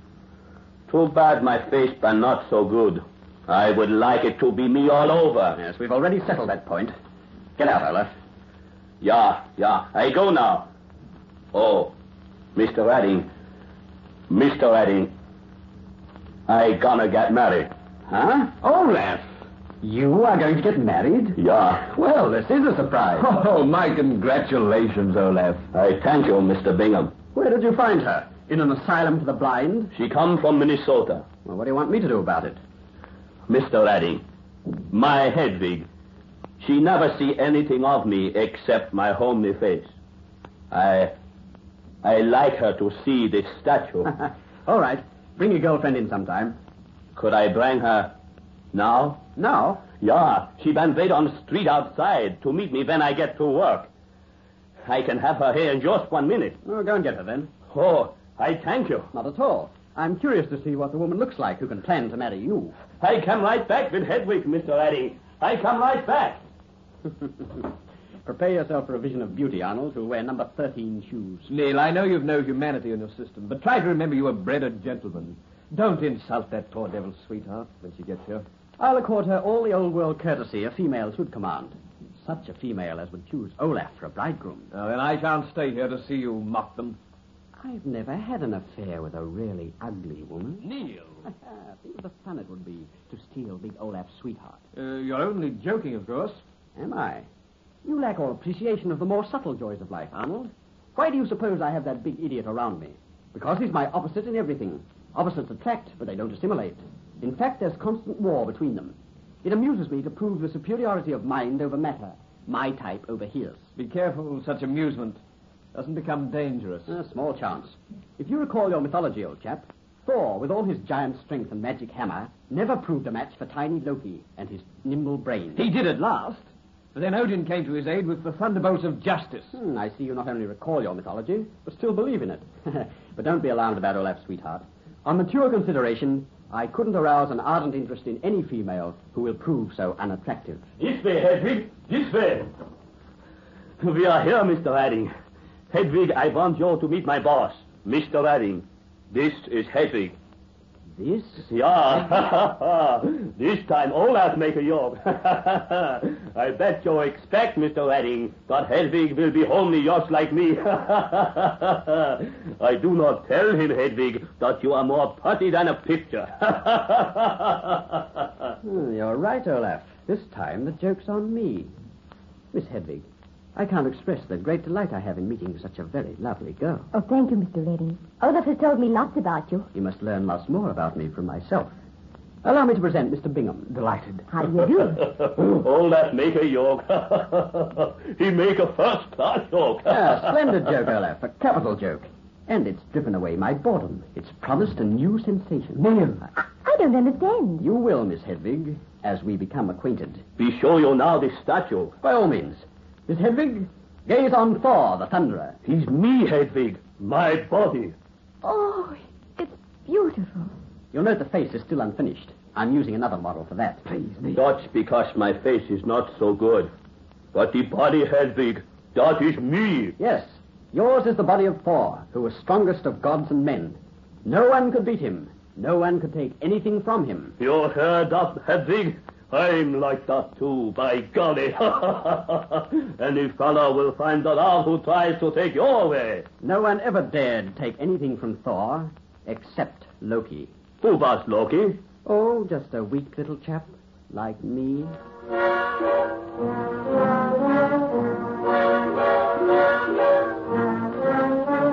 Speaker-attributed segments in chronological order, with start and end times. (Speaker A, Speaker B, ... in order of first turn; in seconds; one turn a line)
Speaker A: 0.9-5.6
Speaker B: 5.5-6.9
Speaker B: 7.6-8.1
Speaker A: 9.0-10.7
Speaker A: 11.5-11.9
Speaker A: 12.5-13.3
Speaker A: 14.3-15.1
Speaker A: 16.5-17.7
Speaker B: 18.1-18.6
Speaker C: 18.6-19.2
Speaker B: 19.8-23.3
Speaker A: 21.4-21.8
Speaker C: 23.2-25.6
Speaker A: 25.7-27.1
Speaker B: 27.3-29.9
Speaker A: 29.9-31.2
Speaker B: 31.4-32.6
Speaker A: 33.5-34.2
Speaker A: 34.9-35.9
Speaker A: 36.6-39.9
Speaker A: 40.7-41.1
Speaker A: 42.0-44.1
Speaker B: 44.2-46.6
Speaker A: 47.1-48.1
Speaker A: 48.7-49.2
Speaker B: 49.4-49.8
Speaker A: 50.0-53.9
Speaker A: 54.9-56.6
Speaker B: 56.6-57.5
Speaker A: 57.7-59.1
Speaker B: 59.1-62.8
Speaker A: 63.0-66.4
Speaker B: 68.2-71.5
Speaker C: 71.5-78.4
Speaker B: 78.8-84.7
Speaker C: 84.7-87.0
Speaker B: 87.6-90.7
Speaker C: 90.6-91.2
Speaker B: 91.2-94.6
Speaker C: 94.7-96.4
Speaker B: 96.8-97.3
Speaker B: 97.8-113.7
Speaker C: 113.8-115.2
Speaker C: 115.7-116.9
Speaker B: 116.9-125.7
Speaker C: 125.6-129.6
Speaker B: 129.5-140.7
Speaker A: 140.8-142.5
Speaker A: 143.8-145.1
Speaker A: 145.7-150.2
Speaker B: 150.9-151.5
Speaker A: 151.4-168.3
Speaker B: 168.6-171.7
Speaker B: 172.5-176.9
Speaker D: 176.9-179.7
Speaker B: 179.7-181.7
Speaker B: 182.4-183.8
Speaker C: 183.7-184.2
Speaker D: 184.3-185.1
Speaker A: 185.0-190.3
Speaker B: 189.9-196.0
Speaker C: 195.8-196.2
Speaker D: 196.6-197.7
Speaker B: 197.6-200.2
Speaker A: 200.4-201.9
Speaker B: 202.0-205.6
Speaker A: 205.7-207.9
Speaker D: 208.4-210.5
Speaker B: 210.9-213.8
Speaker C: 213.9-214.4
Speaker A: 214.3-216.7
Speaker A: 217.3-219.9
Speaker B: 220.0-227.3
Speaker A: 227.4-236.2
Speaker B: 236.4-240.5
Speaker A: 240.8-241.8
Speaker B: 242.0-244.9